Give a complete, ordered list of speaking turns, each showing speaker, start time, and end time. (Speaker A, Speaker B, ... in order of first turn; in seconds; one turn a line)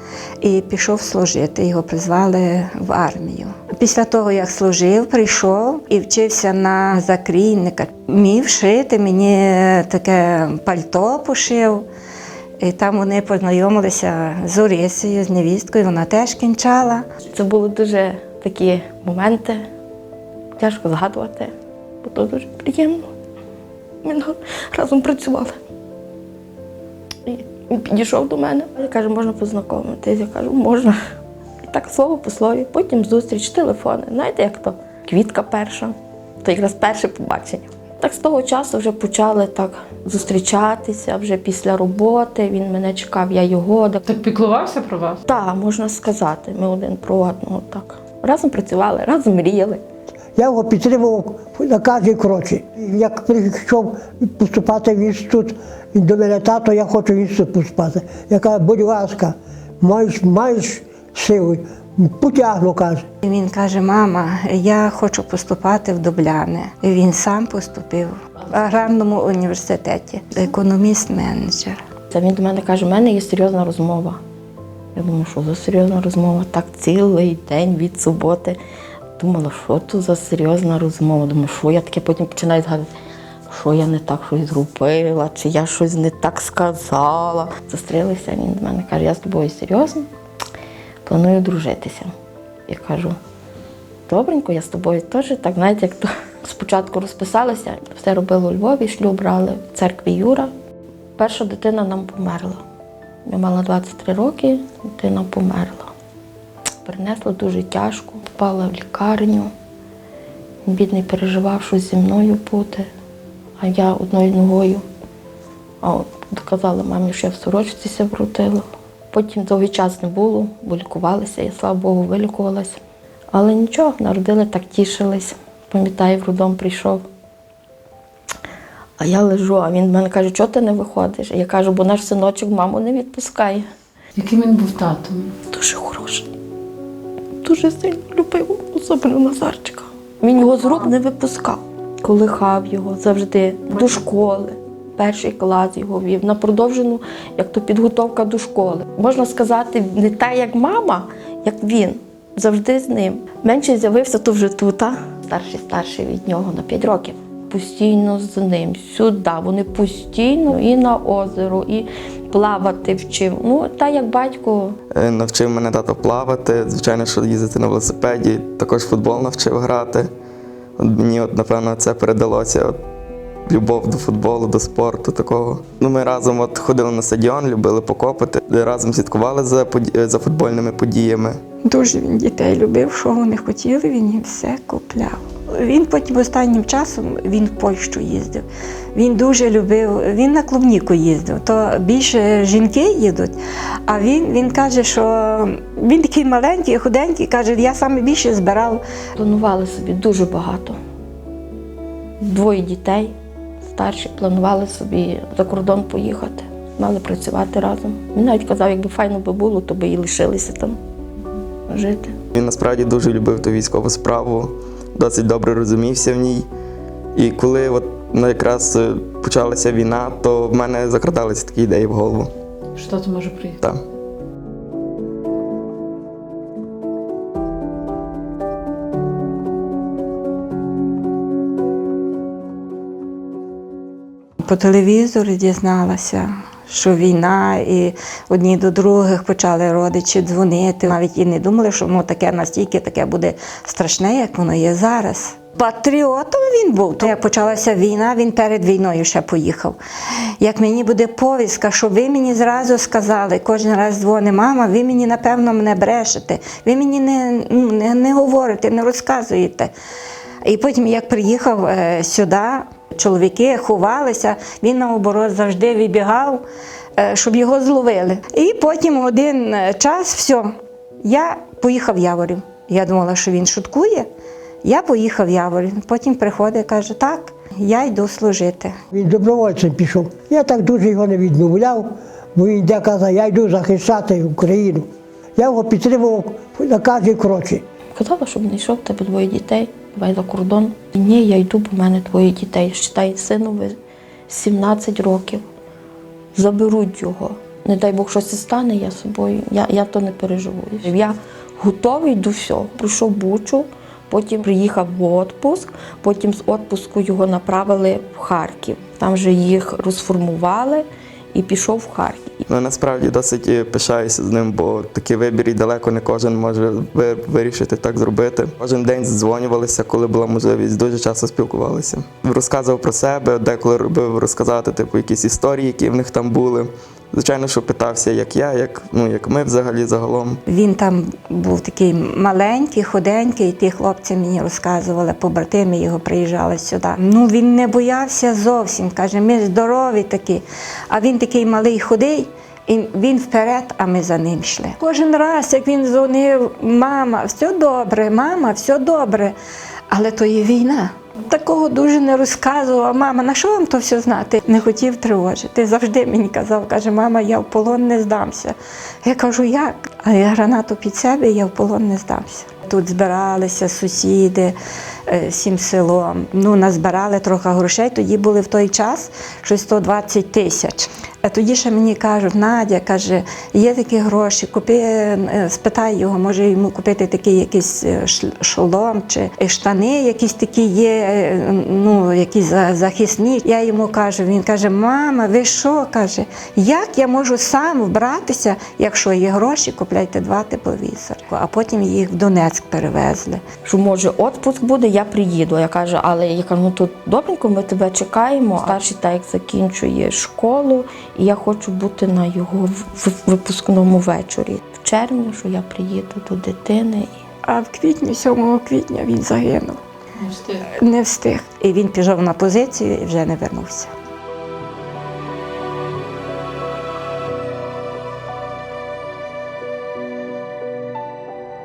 Speaker A: 0.4-11.9
Speaker A: 12.6-17.1
Speaker B: 17.3-19.7
Speaker B: 20.6-23.1
Speaker B: 24.0-25.6
Speaker B: 27.3-31.0
Speaker B: 31.6-44.0
Speaker C: 44.1-45.2
Speaker B: 45.2-49.8
Speaker D: 50.4-63.0
Speaker A: 63.2-71.8
Speaker B: 72.1-74.2
Speaker B: 75.0-78.6
Speaker B: 79.2-82.9
Speaker B: 83.5-90.1
Speaker B: 91.0-92.1
Speaker B: 92.7-93.2
Speaker B: 94.1-100.5
Speaker B: 101.2-102.6
Speaker B: 103.3-105.9
Speaker B: 106.8-109.5
Speaker B: 110.7-112.9
Speaker B: 113.6-114.8
Speaker B: 115.8-122.8
Speaker B: 123.3-127.0
Speaker B: 129.0-133.7
Speaker C: 134.2-135.4
Speaker B: 135.5-136.3
Speaker B: 137.4-164.8
Speaker E: 164.9-170.1
Speaker E: 170.8-172.8
Speaker E: 173.5-181.4
Speaker A: 181.7-193.4
Speaker A: 193.9-198.8
Speaker B: 199.2-200.8
Speaker B: 202.2-210.8
Speaker B: 211.7-212.2
Speaker E: 212.3-216.5
Speaker E: 217.2-222.3
Speaker C: 222.8-223.6
Speaker A: 234.4-249.8
Speaker A: 250.4-259.7
Speaker A: 260.4-266.4
Speaker A: 267.0-270.5
Speaker A: 271.0-274.1
Speaker A: 274.6-278.8
Speaker D: 278.9-287.6
Speaker B: 288.0-293.8
Speaker B: 294.3-295.4
Speaker B: 296.3-312.4
Speaker E: 312.5-330.4
Speaker A: 330.5-349.4
Speaker A: 349.9-364.6
Speaker A: 365.1-393.4
Speaker B: 393.6-407.2
Speaker A: 407.5-409.8
Speaker C: 410.2-410.6
Speaker A: 410.7-413.9